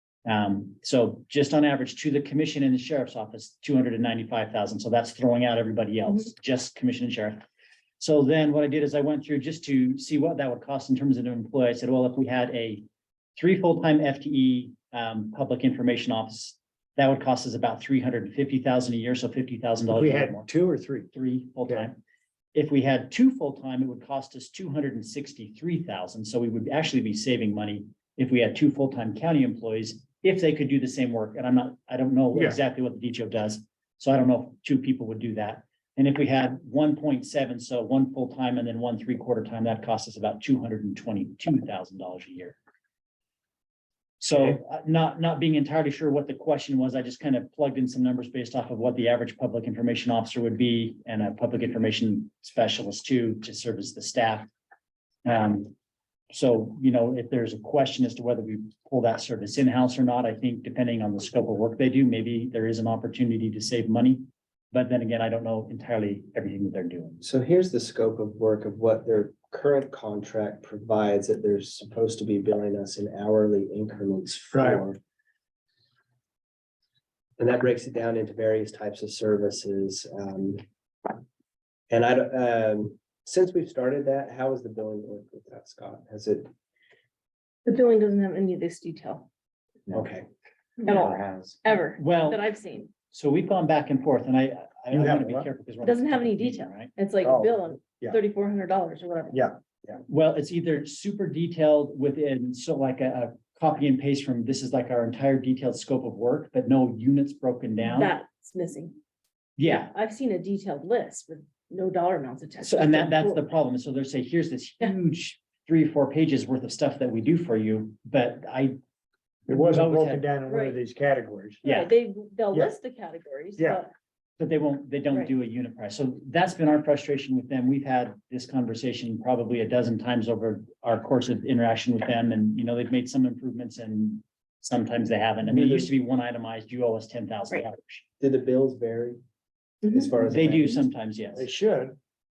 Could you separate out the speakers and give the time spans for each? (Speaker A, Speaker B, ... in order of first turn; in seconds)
Speaker A: 0.3-7.4, 8.0-12.9, 13.4-20.5, 21.1-22.0, 22.5-42.6, 44.2-54.5, 55.2-55.7, 56.3-67.2, 92.0-92.5, 93.1-96.9, 100.1-108.1, 109.6-109.9, 112.6-118.8, 119.5-120.3, 121.6-121.9, 124.4-138.1, 140.3-141.5
Speaker B: 19.9-21.1, 32.3-32.6, 74.5-74.8, 94.9-95.5, 97.2-98.2, 119.5-121.6, 123.6-123.8, 135.5-135.9, 141.4-142.0
Speaker C: 67.2-75.0, 77.4-80.6, 81.9-86.5, 89.9-90.3, 138.2-139.2, 139.9-140.9
Speaker D: 87.7-89.3, 90.8-92.9, 95.8-99.5, 107.9-109.0, 109.6-113.4, 120.5-120.8, 121.6-123.9, 139.8-140.1